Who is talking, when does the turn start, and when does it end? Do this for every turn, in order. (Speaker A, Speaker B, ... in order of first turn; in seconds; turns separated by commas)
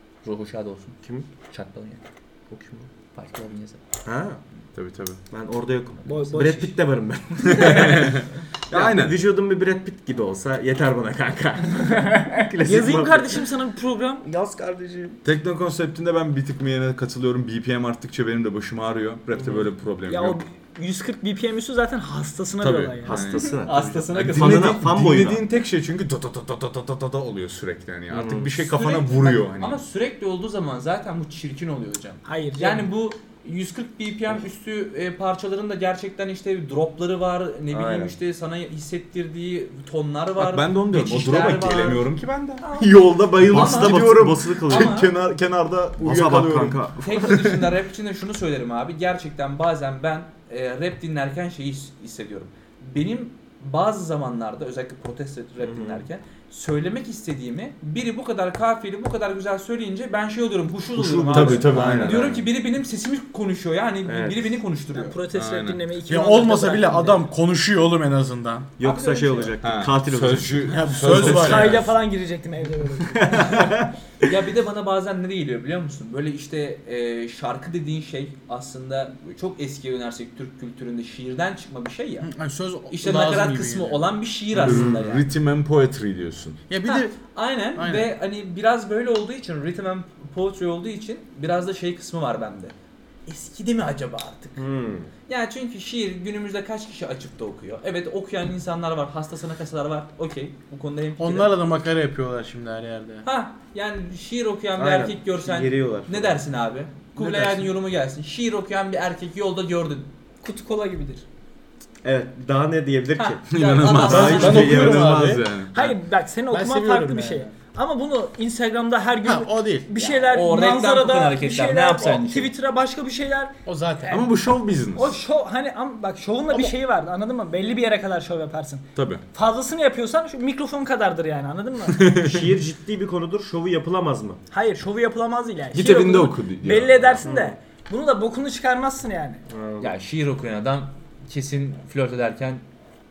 Speaker A: 0.2-2.0, Speaker B: 2.5-2.9, Speaker A: 3.1-3.8, Speaker B: 4.0-4.4, Speaker C: 4.8-5.2, Speaker B: 5.3-13.4, Speaker A: 6.0-6.7, Speaker D: 6.0-6.7, Speaker C: 7.4-9.2, Speaker D: 11.9-14.3, Speaker B: 14.2-15.2, Speaker C: 15.2-20.4, Speaker B: 19.3-19.7, Speaker D: 20.1-23.4, Speaker C: 22.6-23.5, Speaker B: 23.0-25.4, Speaker A: 23.6-24.9, Speaker C: 24.1-29.8, Speaker B: 28.1-28.6, Speaker A: 28.6-42.1, Speaker D: 32.2-32.9, Speaker B: 37.7-38.1, Speaker C: 40.4-47.4, Speaker A: 42.6-45.1, Speaker B: 43.4-45.0, Speaker B: 46.0-47.4, Speaker A: 47.0-65.2, Speaker B: 55.6-56.1, Speaker B: 60.9-62.3, Speaker C: 61.3-62.5, Speaker B: 64.0-64.6, Speaker D: 64.9-67.3, Speaker C: 65.3-65.8, Speaker E: 66.1-68.8, Speaker B: 68.8-71.8, Speaker A: 68.8-69.6, Speaker D: 68.8-69.5, Speaker C: 69.6-71.9, Speaker E: 70.6-71.8, Speaker D: 71.2-73.9, Speaker B: 73.1-74.3, Speaker A: 74.2-82.3, Speaker E: 82.2-84.1, Speaker A: 82.9-85.3, Speaker C: 84.6-86.6, Speaker B: 84.6-85.0, Speaker E: 86.7-87.2, Speaker A: 86.8-92.7, Speaker E: 87.8-88.1, Speaker A: 93.3-94.6, Speaker B: 94.6-95.1, Speaker A: 95.3-101.5, Speaker E: 101.2-103.2, Speaker A: 103.2-110.1, Speaker B: 104.8-106.4, Speaker E: 107.2-107.7, Speaker D: 110.4-111.2, Speaker B: 112.0-115.4, Speaker A: 113.2-114.8, Speaker C: 113.5-116.0, Speaker E: 114.0-115.5, Speaker D: 115.7-132.1, Speaker E: 116.5-117.5, Speaker E: 119.2-119.9, Speaker A: 120.0-122.5, Speaker E: 123.7-124.2, Speaker C: 124.1-125.2, Speaker C: 129.0-129.2, Speaker C: 131.9-132.6, Speaker B: 132.2-134.4, Speaker D: 134.5-139.4, Speaker C: 135.7-137.3, Speaker B: 137.2-137.6, Speaker B: 139.5-139.9, Speaker A: 139.8-142.6